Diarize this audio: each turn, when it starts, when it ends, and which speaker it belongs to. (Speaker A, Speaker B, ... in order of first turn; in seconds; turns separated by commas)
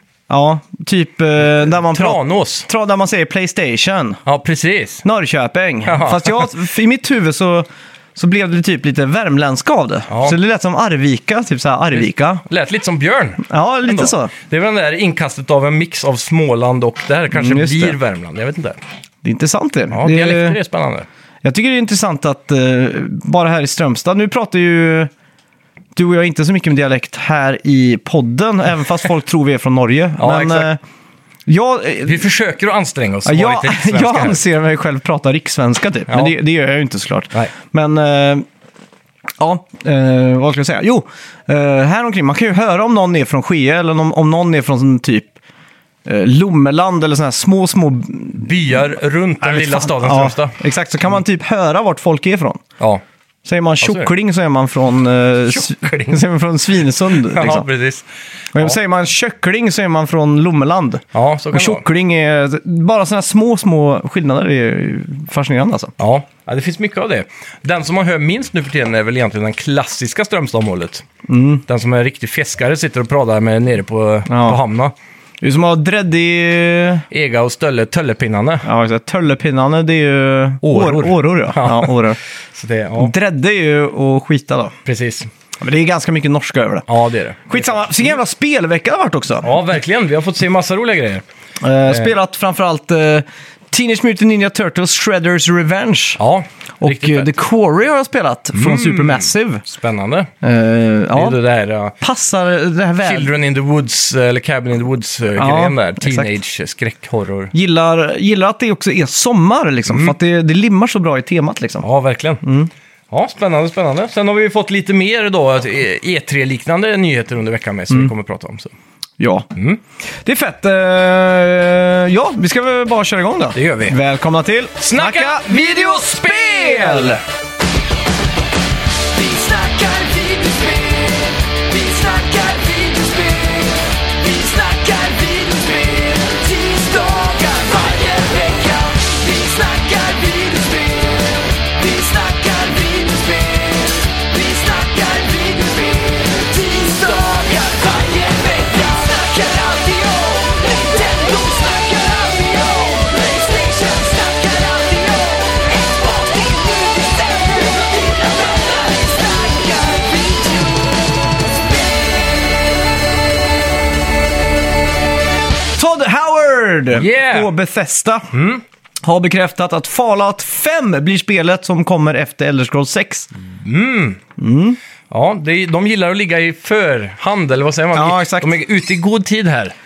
Speaker A: 0.3-4.2, Speaker B: 1.4-2.7, Speaker B: 4.3-5.0, Speaker A: 5.0-12.4, Speaker B: 5.9-6.5, Speaker B: 10.1-10.4, Speaker B: 11.9-18.8, Speaker A: 13.4-14.3, Speaker A: 17.3-18.0, Speaker A: 19.2-20.6, Speaker B: 19.9-21.1, Speaker A: 21.4-25.1, Speaker A: 26.0-30.8, Speaker B: 30.2-30.7, Speaker A: 31.5-32.2, Speaker B: 32.0-34.4, Speaker A: 33.2-38.5, Speaker B: 36.1-36.3, Speaker A: 39.4-45.3, Speaker A: 46.0-48.5, Speaker B: 48.4-50.6, Speaker A: 49.4-52.6, Speaker A: 53.5-57.7, Speaker B: 53.8-54.1, Speaker B: 55.5-56.2, Speaker B: 57.1-58.1, Speaker A: 58.5-65.9, Speaker B: 61.1-61.9, Speaker B: 66.0-71.1, Speaker A: 71.3-71.6, Speaker B: 71.7-74.9, Speaker A: 74.3-74.6, Speaker A: 75.4-77.1, Speaker B: 77.1-78.7, Speaker A: 78.6-82.2, Speaker B: 80.6-82.0, Speaker B: 82.5-83.1, Speaker A: 83.0-84.8, Speaker B: 84.8-85.3, Speaker A: 85.6-86.9, Speaker B: 86.9-88.1, Speaker A: 87.5-89.5, Speaker B: 89.4-91.2, Speaker A: 91.6-96.2, Speaker B: 91.9-92.1, Speaker B: 96.2-97.3, Speaker A: 96.8-99.6, Speaker B: 98.5-100.3, Speaker A: 100.4-101.4, Speaker B: 101.1-102.0, Speaker A: 102.0-103.3, Speaker B: 103.0-107.5, Speaker A: 105.4-106.3, Speaker A: 107.5-111.8, Speaker B: 109.9-110.2, Speaker B: 111.8-112.4, Speaker A: 112.4-112.7, Speaker B: 113.1-118.7, Speaker A: 119.2-119.5, Speaker B: 119.5-119.8, Speaker A: 120.2-127.2, Speaker B: 123.5-124.0, Speaker B: 124.8-127.2, Speaker C: 129.1-161.0, Speaker C: 161.7-162.3, Speaker A: 165.8-168.3, Speaker B: 166.9-167.5, Speaker B: 168.3-168.6, Speaker A: 169.0-173.3, Speaker B: 173.5-174.2, Speaker A: 174.4-174.8, Speaker B: 175.1-179.8, Speaker A: 177.9-178.5